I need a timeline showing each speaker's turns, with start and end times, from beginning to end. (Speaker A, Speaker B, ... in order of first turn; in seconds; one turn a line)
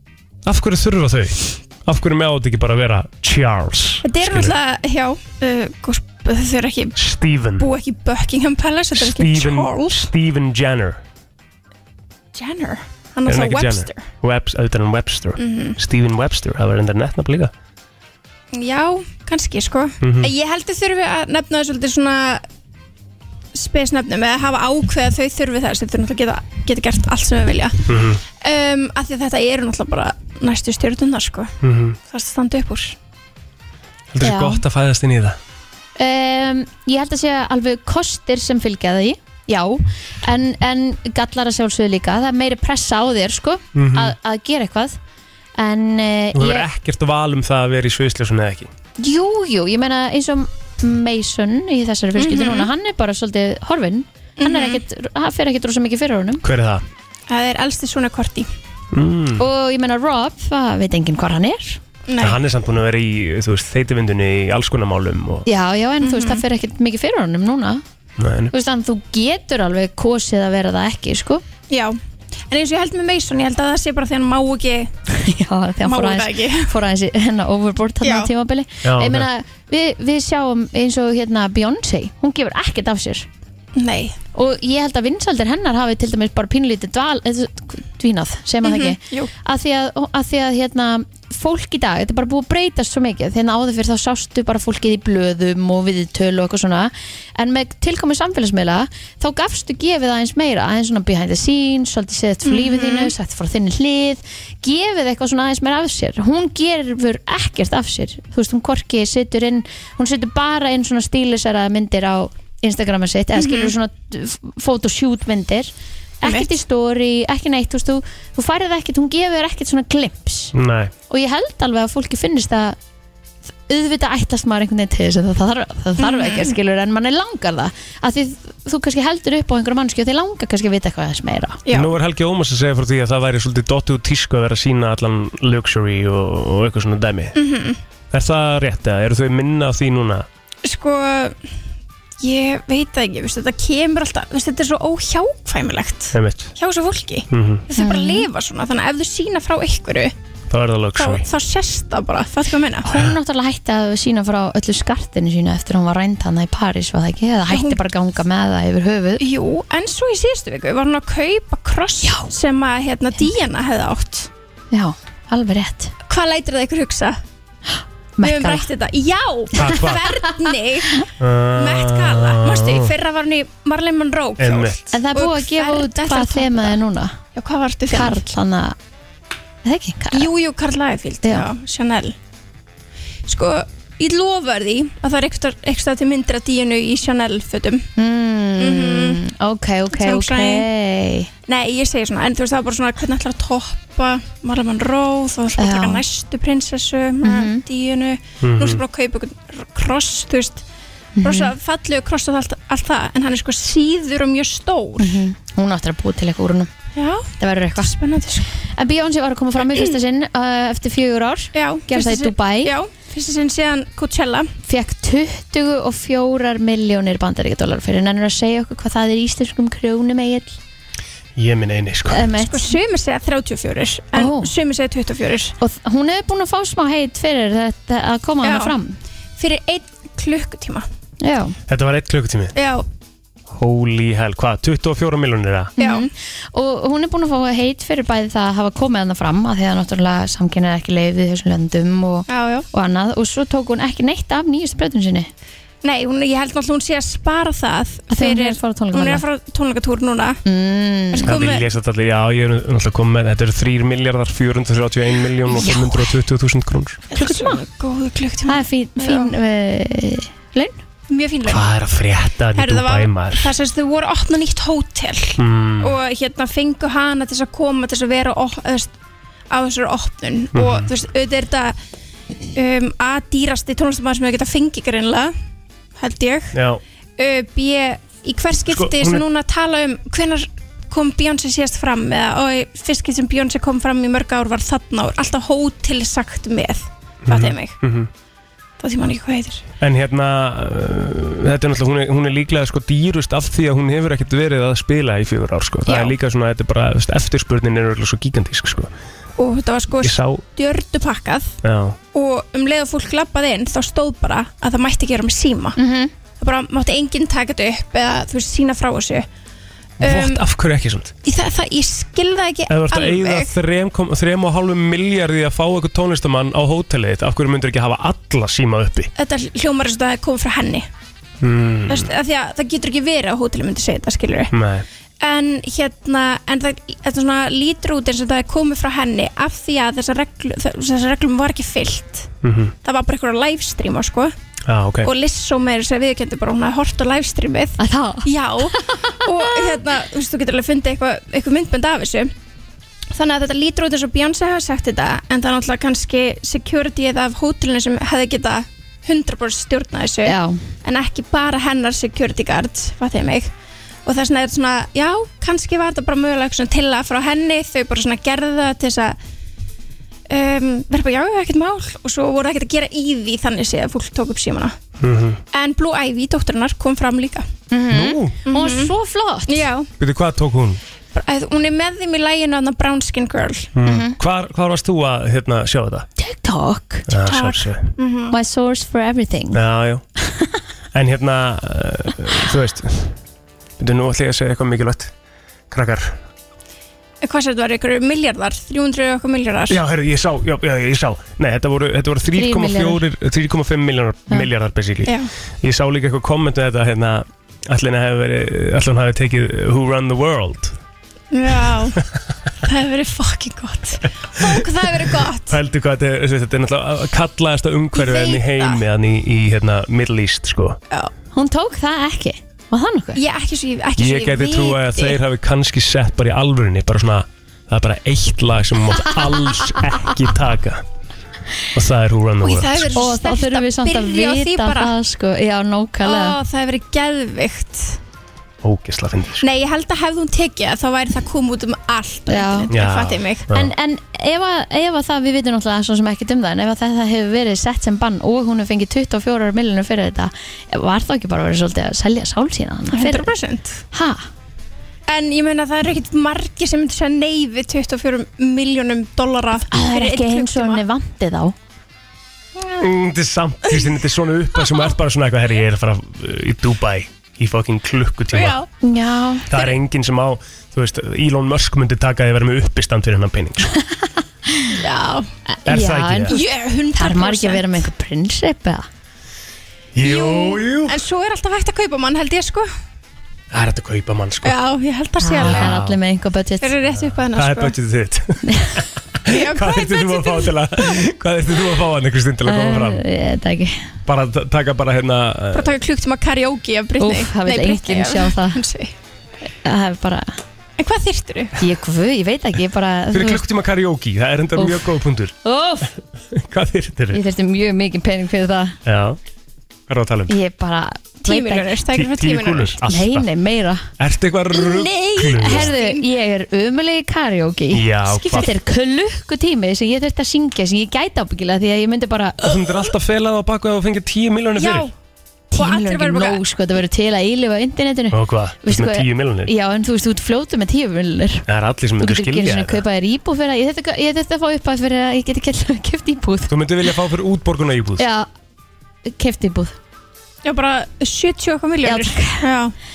Speaker A: 0.4-4.5
Speaker B: 4.0-7.0
Speaker A: 7.0-7.7
Speaker B: 7.6-10.1
Speaker A: 8.9-11.0
Speaker B: 12.3-14.1
Speaker A: 13.2-17.5
Speaker B: 15.4-15.8
Speaker B: 18.5-22.4
Speaker A: 20.0-20.3
Speaker B: 23.5-27.9
Speaker A: 27.9-28.2
Speaker B: 28.4-33.0
Speaker A: 31.6-32.0
Speaker A: 34.1-35.4
Speaker C: 34.2-34.6
Speaker C: 36.0-45.0
Speaker A: 43.7-44.1
Speaker C: 45.6-46.7
Speaker A: 46.3-48.7
Speaker C: 49.0-56.4
Speaker B: 52.1-52.7
Speaker B: 54.4-54.8
Speaker A: 56.4-56.8
Speaker B: 57.3-58.5
Speaker A: 58.9-59.4
Speaker C: 59.4-61.8
Speaker B: 62.1-62.4
Speaker A: 62.2-65.5
Speaker C: 65.5-67.8
Speaker B: 66.0-66.4
Speaker A: 68.2-68.5
Speaker C: 68.5-71.4
Speaker B: 71.7-72.0
Speaker B: 72.5-74.9
Speaker C: 75.1-83.3
Speaker B: 75.8-76.7
Speaker B: 78.0-78.3
Speaker A: 78.8-79.3
Speaker B: 83.7-84.2
Speaker C: 84.3-120.5
Speaker B: 88.6-89.3
Speaker B: 102.4-103.1
Speaker B: 113.3-113.7
Speaker B: 116.2-116.5
Speaker A: 120.5-120.9
Speaker C: 121.1-122.8
Speaker C: 123.7-131.6
Speaker B: 126.0-126.5
Speaker B: 131.7-131.9
Speaker A: 131.7-137.4
Speaker B: 137.3-137.8
Speaker A: 138.1-140.3
Speaker B: 140.6-141.4
Speaker B: 142.2-150.1
Speaker A: 146.1-146.5
Speaker A: 147.3-147.6
Speaker C: 147.7-148.3
Speaker A: 150.5-151.2
Speaker B: 150.9-152.9
Speaker C: 152.8-159.2
Speaker B: 157.5-157.8
Speaker B: 159.2-164.3
Speaker C: 162.0-162.3
Speaker C: 164.7-165.9
Speaker B: 166.1-167.2
Speaker C: 168.2-168.7
Speaker B: 168.2-176.8
Speaker A: 169.6-170.2
Speaker A: 171.2-172.9
Speaker A: 174.4-174.9
Speaker C: 174.9-177.2
Speaker B: 177.3-178.3
Speaker C: 177.9-178.8
Speaker C: 179.6-180.3
Speaker B: 180.1-182.2
Speaker B: 183.2-187.9
Speaker C: 188.0-191.3
Speaker B: 188.6-189.2
Speaker B: 189.9-190.7
Speaker B: 191.5-200.6
Speaker C: 195.6-196.0
Speaker C: 197.2-197.6
Speaker A: 198.4-198.8
Speaker C: 201.2-201.5
Speaker B: 201.2-205.2
Speaker C: 205.0-206.7
Speaker B: 206.9-208.5
Speaker C: 207.4-207.9
Speaker C: 208.8-212.7
Speaker B: 211.5-214.5
Speaker C: 214.6-220.6
Speaker A: 221.4-222.2
Speaker C: 222.1-222.8
Speaker B: 222.4-225.6
Speaker C: 224.1-224.5
Speaker C: 225.6-229.0
Speaker B: 228.4-228.7
Speaker B: 229.4-230.9
Speaker C: 231.2-231.6
Speaker A: 231.7-232.6
Speaker B: 232.6-232.9
Speaker A: 233.5-235.7
Speaker C: 235.8-245.3
Speaker B: 235.8-236.1
Speaker B: 242.3-242.7
Speaker B: 245.8-250.4
Speaker C: 248.1-249.2
Speaker C: 250.4-251.4
Speaker B: 251.1-251.7
Speaker A: 251.2-257.0
Speaker B: 257.1-259.3
Speaker C: 257.1-257.6
Speaker C: 258.4-260.8
Speaker B: 261.1-261.7
Speaker A: 261.4-263.5
Speaker B: 262.6-268.9
Speaker A: 265.4-266.0
Speaker B: 269.5-271.8
Speaker A: 270.5-270.9
Speaker B: 272.6-275.3
Speaker B: 275.9-276.6
Speaker A: 276.5-276.8
Speaker B: 277.2-287.8
Speaker A: 278.7-279.2
Speaker A: 287.2-288.1
Speaker B: 288.8-289.6
Speaker A: 289.8-298.9
Speaker B: 295.9-296.1
Speaker B: 299.4-301.6
Speaker A: 300.0-300.4
Speaker A: 301.6-302.0
Speaker B: 302.1-305.8
Speaker C: 305.8-306.1
Speaker B: 306.4-309.2
Speaker B: 310.0-310.4
Speaker A: 310.0-311.1
Speaker B: 311.2-313.5
Speaker A: 312.7-319.1
Speaker B: 319.1-320.9
Speaker A: 321.4-322.1
Speaker B: 321.9-324.5
Speaker A: 324.5-324.9
Speaker B: 325.2-332.3
Speaker A: 332.4-332.7
Speaker B: 332.8-334.3
Speaker A: 334.6-335.1
Speaker B: 335.0-342.3
Speaker C: 337.8-339.3
Speaker B: 343.1-353.5
Speaker C: 350.2-350.6
Speaker B: 354.1-359.2
Speaker B: 360.3-364.8
Speaker A: 365.0-365.4
Speaker B: 365.5-367.4
Speaker C: 367.7-369.7
Speaker A: 367.9-368.4
Speaker B: 368.4-368.9
Speaker B: 369.5-369.9
Speaker A: 370.0-370.8
Speaker B: 371.1-373.7
Speaker A: 373.7-376.1
Speaker C: 373.8-374.2
Speaker C: 376.2-377.1
Speaker A: 377.1-377.9
Speaker B: 377.2-378.4
Speaker C: 378.3-379.6
Speaker A: 379.5-380.0
Speaker C: 380.3-380.6
Speaker A: 380.9-383.2
Speaker A: 383.8-385.1
Speaker A: 385.7-386.2
Speaker B: 387.2-389.8
Speaker A: 389.7-400.8
Speaker C: 392.3-393.0
Speaker B: 395.1-395.3
Speaker B: 401.3-402.0
Speaker B: 402.6-405.6
Speaker A: 405.5-410.8
Speaker B: 407.9-408.8
Speaker C: 411.3-413.2
Speaker B: 413.1-415.2
Speaker A: 414.0-420.8
Speaker A: 421.7-422.9
Speaker B: 422.4-424.9
Speaker C: 422.9-426.4
Speaker B: 426.0-428.0
Speaker A: 428.6-429.4
Speaker B: 429.4-433.5
Speaker C: 432.3-432.7
Speaker A: 432.7-433.7
Speaker C: 433.5-443.3
Speaker B: 442.9-443.8
Speaker C: 443.9-444.2
Speaker B: 445.1-450.8
Speaker C: 449.7-451.6
Speaker B: 452.6-452.9
Speaker A: 452.8-458.6
Speaker B: 458.3-458.7
Speaker C: 458.8-459.5
Speaker A: 459.5-463.7
Speaker B: 464.8-465.3
Speaker C: 465.5-466.4
Speaker A: 465.6-466.4
Speaker B: 466.3-467.8
Speaker C: 466.9-468.9
Speaker A: 469.9-471.0
Speaker B: 470.0-472.7
Speaker A: 473.5-474.6
Speaker B: 474.4-475.8
Speaker C: 475.2-476.7
Speaker A: 475.4-476.0
Speaker B: 476.6-477.8
Speaker A: 477.0-483.0
Speaker C: 478.4-478.8
Speaker B: 479.3-480.7
Speaker C: 482.4-483.8
Speaker A: 484.1-485.8
Speaker B: 485.5-488.9
Speaker C: 487.0-488.6
Speaker C: 489.6-490.4
Speaker B: 490.8-491.6
Speaker C: 491.6-493.4
Speaker A: 493.1-495.3
Speaker C: 494.6-494.9
Speaker C: 495.4-495.9
Speaker A: 496.3-497.2
Speaker C: 497.1-498.8
Speaker A: 498.9-499.2
Speaker A: 499.9-500.3
Speaker C: 500.3-501.7
Speaker B: 501.2-502.8
Speaker A: 501.9-503.3
Speaker C: 502.9-503.9
Speaker A: 504.0-505.7
Speaker B: 504.5-506.1
Speaker C: 505.3-512.8
Speaker A: 507.7-508.5
Speaker B: 508.1-508.5
Speaker A: 512.4-514.9
Speaker B: 514.5-514.9
Speaker C: 515.5-521.5
Speaker B: 515.5-516.4
Speaker A: 518.1-519.5
Speaker A: 521.5-522.8
Speaker C: 522.0-526.5
Speaker A: 526.5-528.0
Speaker C: 528.0-528.3
Speaker C: 529.0-529.7
Speaker B: 530.4-532.7
Speaker C: 531.8-532.5